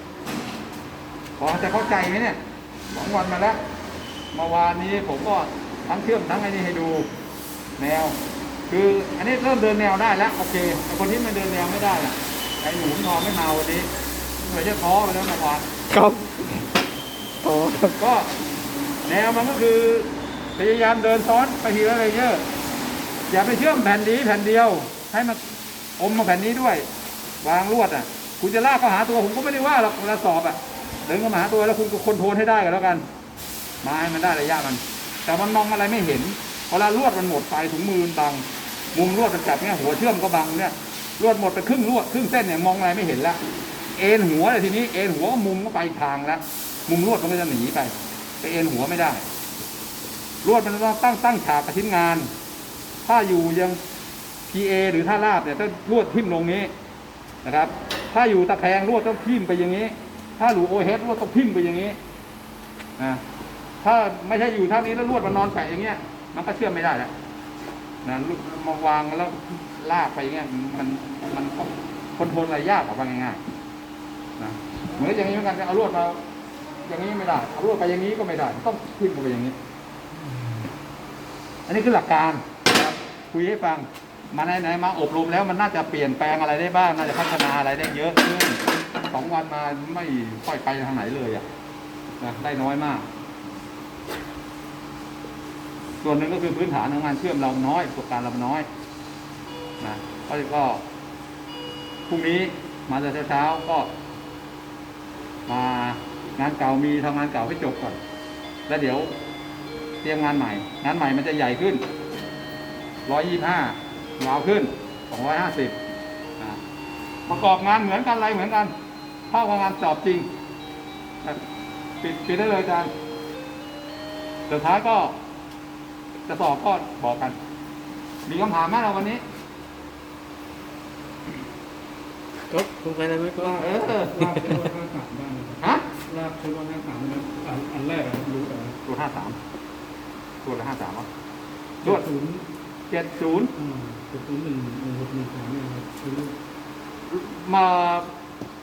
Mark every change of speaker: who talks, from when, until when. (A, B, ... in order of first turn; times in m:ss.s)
0:01.4-0:02.4 A
0:02.9-0:03.6 A
0:04.3-0:07.1 A
0:07.8-0:08.2 A
0:08.7-0:13.9 A
0:14.4-0:15.7 A
0:15.9-0:16.7 B
0:17.4-0:18.0 B
0:18.0-0:18.3 A
0:19.0-0:22.4 A
0:23.3-0:25.4 A
0:26.0-0:26.8 A
0:27.4-0:33.0 A
0:33.8-0:43.4 A
0:44.0-0:49.2 A
0:50.4-0:52.3 A
0:53.0-0:53.8 A
0:54.5-0:56.7 A
0:57.4-1:02.0 A
1:03.0-1:03.2 A
1:03.8-1:07.1 A
1:08.0-1:13.4 A
1:14.4-1:16.2 A
1:16.8-1:19.6 A
1:21.7-1:31.4 A
1:32.2-1:33.0 A
1:36.0-1:38.6 A
1:39.8-1:40.8 A
1:42.1-1:43.9 A
1:45.5-1:48.0 A
1:48.7-1:49.1 A
1:50.0-1:51.8 A
1:53.0-1:55.8 A
1:57.2-1:58.7 A
1:59.3-2:00.3 A
2:02.0-2:02.9 A
2:04.5-2:05.2 A
2:06.3-2:07.4 A
2:08.2-2:09.2 A
2:12.5-2:13.5 B
2:13.3-2:18.8 C
2:13.4-2:14.4 A
2:15.6-2:15.9 A
2:18.8-2:19.4 A
2:20.4-2:21.1 A
2:21.8-2:22.4 C
2:22.9-2:23.5 A
2:23.6-2:26.3 C
2:27.1-2:28.1 A